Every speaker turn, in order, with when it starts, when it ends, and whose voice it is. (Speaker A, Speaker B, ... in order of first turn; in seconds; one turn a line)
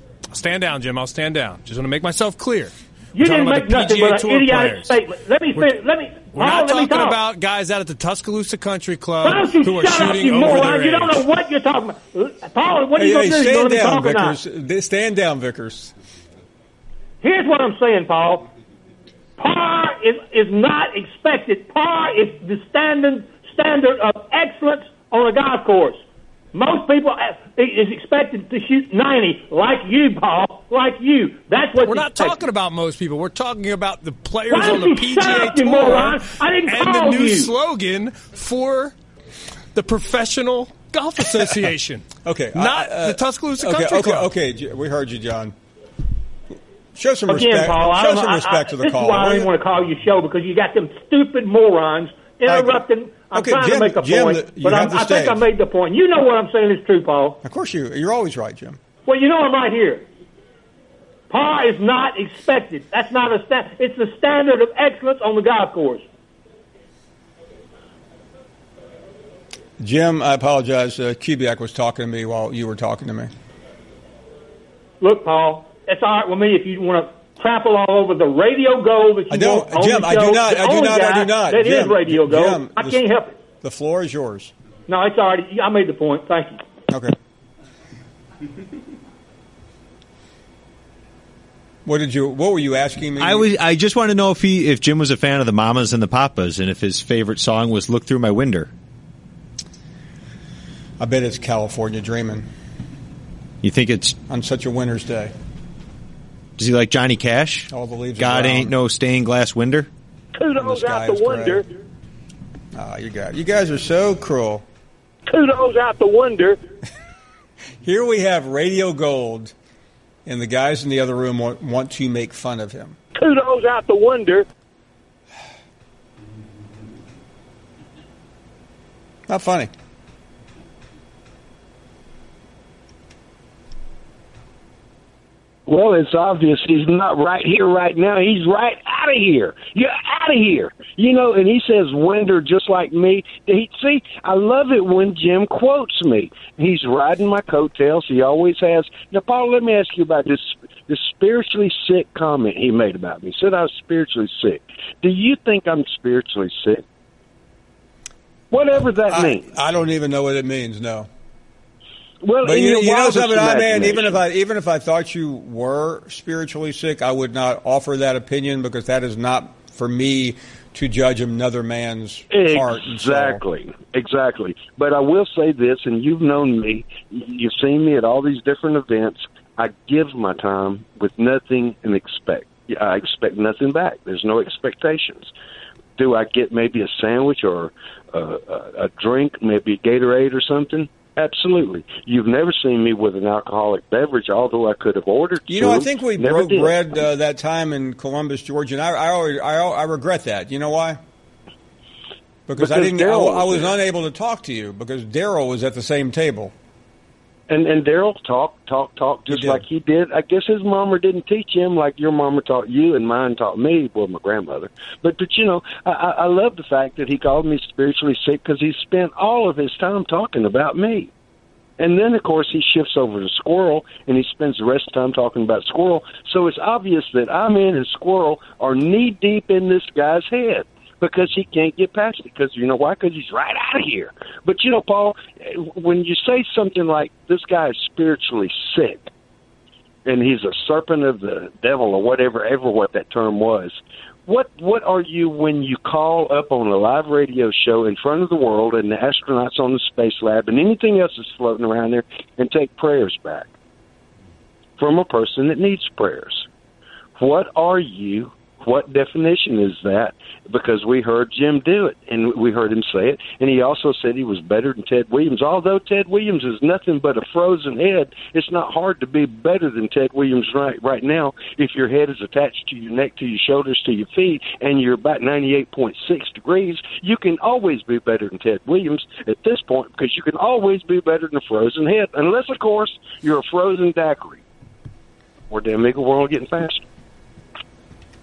Speaker A: 0.3-5.0
Speaker B: 3.1-7.2
Speaker A: 5.5-5.8
Speaker A: 6.3-11.2
Speaker B: 9.2-14.4
Speaker C: 12.9-15.9
Speaker B: 17.2-18.5
Speaker B: 19.4-26.0
Speaker B: 26.5-32.4
Speaker A: 31.8-38.9
Speaker B: 34.5-37.5
Speaker A: 39.7-44.3
Speaker C: 42.2-45.5
Speaker C: 47.0-49.5
Speaker B: 47.3-57.4
Speaker C: 52.5-52.8
Speaker C: 53.3-55.4
Speaker C: 57.4-58.8
Speaker B: 59.0-60.0
Speaker B: 61.3-66.0
Speaker C: 69.8-73.3
Speaker B: 75.0-83.3
Speaker C: 79.3-83.0
Speaker C: 83.6-84.5
Speaker B: 84.9-86.6
Speaker C: 91.8-93.5
Speaker D: 93.2-98.7
Speaker C: 101.0-102.5
Speaker D: 103.6-104.2
Speaker C: 104.3-105.3
Speaker D: 106.6-109.9
Speaker C: 107.7-108.7
Speaker E: 110.3-111.6
Speaker C: 110.6-111.6
Speaker C: 112.7-114.6
Speaker E: 115.2-116.6
Speaker C: 117.8-119.5
Speaker C: 120.2-123.0
Speaker E: 123.1-124.4
Speaker C: 129.3-129.7
Speaker F: 135.7-156.8
Speaker F: 158.5-159.5
Speaker C: 159.1-161.1
Speaker F: 162.2-164.2
Speaker C: 162.4-173.4
Speaker F: 172.3-185.3
Speaker F: 186.0-196.8
Speaker C: 195.5-201.0
Speaker C: 202.5-206.5
Speaker F: 202.6-203.8
Speaker F: 207.5-221.1
Speaker C: 209.3-209.6
Speaker F: 221.8-239.1
Speaker F: 240.1-253.5
Speaker F: 254.8-256.4
Speaker F: 257.2-284.4
Speaker F: 285.5-286.8